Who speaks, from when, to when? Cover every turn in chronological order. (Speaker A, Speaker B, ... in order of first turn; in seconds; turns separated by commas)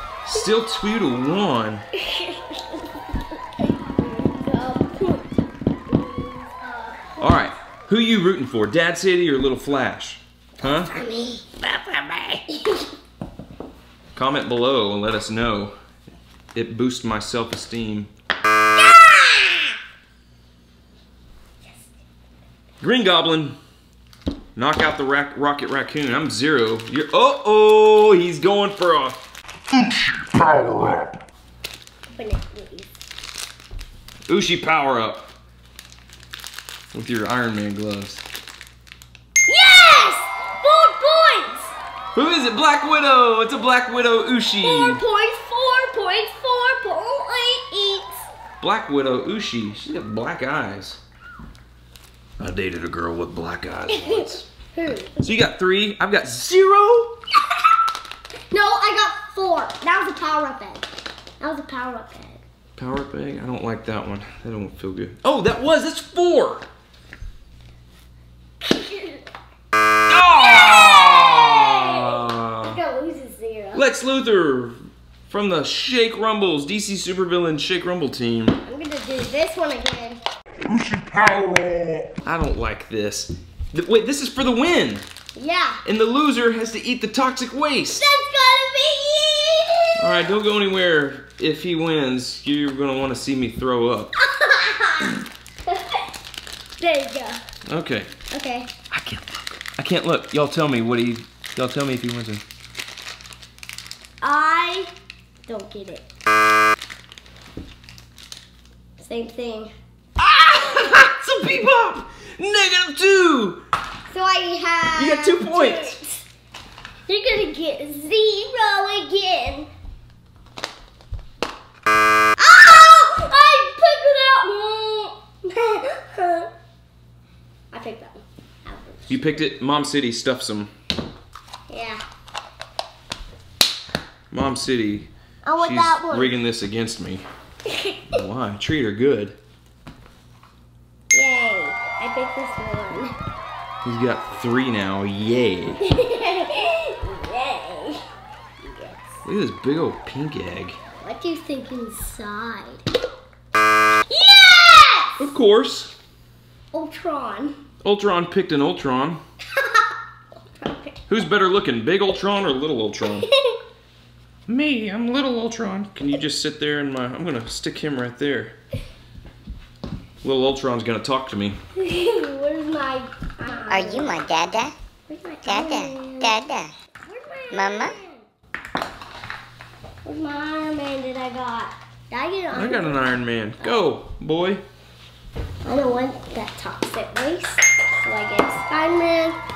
Speaker A: 0.2-1.9, Speaker B: 2.0-3.0, Speaker B: 3.6-7.2, Speaker A: 7.2-11.0, Speaker B: 10.9-11.5, Speaker A: 11.6-12.4, Speaker B: 12.5-12.8, Speaker A: 14.1-15.7, Speaker A: 16.5-18.1, Speaker B: 18.8-19.7, Speaker A: 22.8-23.6, Speaker A: 24.6-29.2, Speaker B: 32.1-32.9, Speaker A: 34.3-35.2, Speaker A: 36.9-38.2, Speaker B: 39.5-41.7, Speaker A: 42.1-45.0, Speaker B: 44.6-48.3, Speaker A: 48.6-51.0, Speaker A: 52.4-54.5, Speaker B: 53.9-54.2, Speaker B: 54.7-55.2, Speaker A: 55.2-57.1, Speaker B: 58.5-60.9, Speaker B: 61.4-62.4, Speaker A: 62.8-66.6, Speaker B: 68.6-69.2, Speaker A: 70.1-72.8, Speaker B: 70.5-73.8, Speaker A: 73.7-74.8, Speaker A: 75.3-78.6, Speaker B: 78.6-80.2, Speaker A: 82.2-85.0, Speaker B: 85.3-85.8, Speaker A: 85.8-88.1, Speaker B: 87.9-90.2, Speaker A: 90.0-94.1, Speaker B: 94.2-95.2, Speaker B: 96.8-97.4, Speaker A: 97.7-98.1, Speaker B: 98.3-98.7, Speaker A: 98.9-102.4, Speaker B: 104.2-104.9, Speaker B: 105.5-106.0, Speaker B: 109.0-109.7, Speaker A: 110.2-113.6, Speaker B: 114.1-116.2, Speaker A: 115.0-116.0, Speaker B: 117.1-119.7, Speaker B: 122.4-126.5, Speaker B: 127.7-129.4, Speaker A: 129.1-130.7, Speaker B: 131.7-132.0, Speaker A: 134.3-137.2, Speaker B: 135.4-136.3, Speaker B: 137.7-138.1, Speaker A: 138.1-139.4, Speaker B: 141.1-143.1, Speaker A: 143.8-145.8, Speaker B: 145.8-148.0, Speaker B: 148.6-149.2, Speaker A: 149.2-150.8, Speaker B: 151.0-152.8, Speaker B: 154.1-155.3, Speaker A: 155.2-155.9, Speaker B: 156.7-157.6, Speaker A: 157.8-159.2, Speaker B: 159.6-159.9, Speaker B: 160.6-161.1, Speaker A: 161.1-163.2, Speaker B: 163.1-163.6, Speaker A: 164.5-168.5, Speaker A: 170.2-171.6, Speaker B: 171.8-174.2, Speaker C: 173.7-174.7, Speaker B: 175.1-176.4, Speaker C: 175.4-176.7, Speaker B: 177.0-178.2, Speaker C: 177.5-177.9, Speaker B: 180.0-183.0, Speaker A: 182.5-184.6, Speaker B: 183.6-183.8, Speaker B: 185.6-189.4